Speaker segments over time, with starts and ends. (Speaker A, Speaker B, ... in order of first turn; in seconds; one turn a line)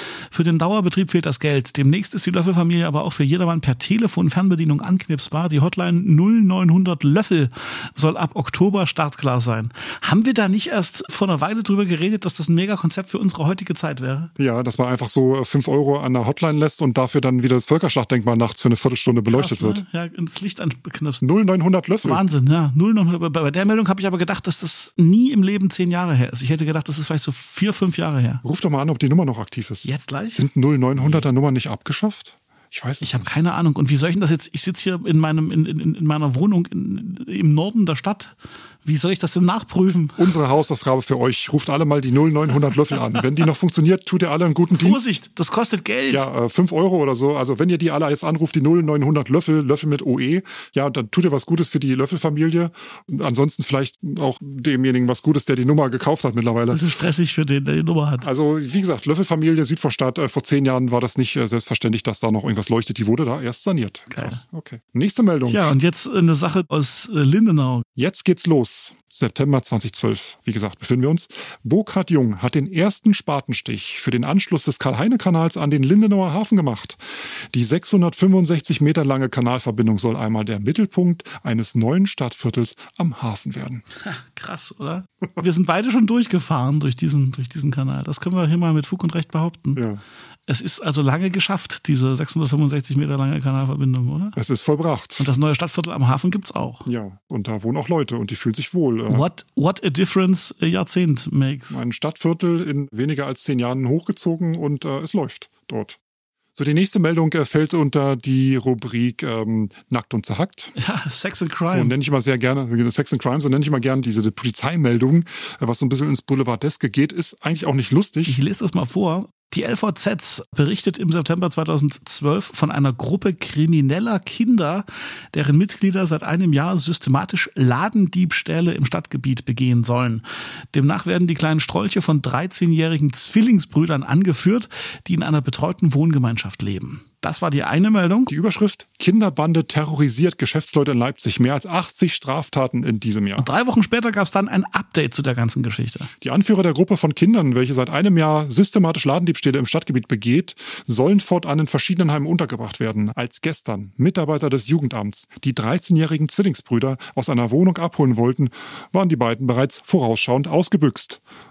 Speaker A: 0.3-14.3
Speaker B: 14.4-19.8
Speaker A: 19.3-21.2
Speaker B: 21.2-22.2
Speaker A: 22.0-28.4
Speaker B: 28.4-33.3
Speaker A: 29.9-30.4
Speaker A: 31.0-31.2
Speaker A: 33.0-38.3
Speaker A: 38.9-40.2
Speaker B: 40.2-45.0
Speaker A: 44.7-46.3
Speaker B: 46.1-56.8
Speaker A: 56.7-58.3
Speaker B: 58.2-65.8
Speaker A: 64.1-64.4
Speaker A: 65.5-67.8
Speaker B: 68.0-77.0
Speaker B: 77.5-83.8
Speaker A: 83.9-89.8
Speaker B: 89.8-90.0
Speaker A: 90.5-94.4
Speaker B: 94.4-95.3
Speaker A: 95.2-96.8
Speaker B: 96.9-99.3
Speaker A: 99.1-101.8
Speaker B: 101.7-106.0
Speaker B: 106.5-110.7
Speaker A: 110.8-112.0
Speaker B: 111.7-118.4
Speaker A: 118.3-138.3
Speaker B: 138.3-143.5
Speaker A: 143.4-146.1
Speaker B: 146.2-161.2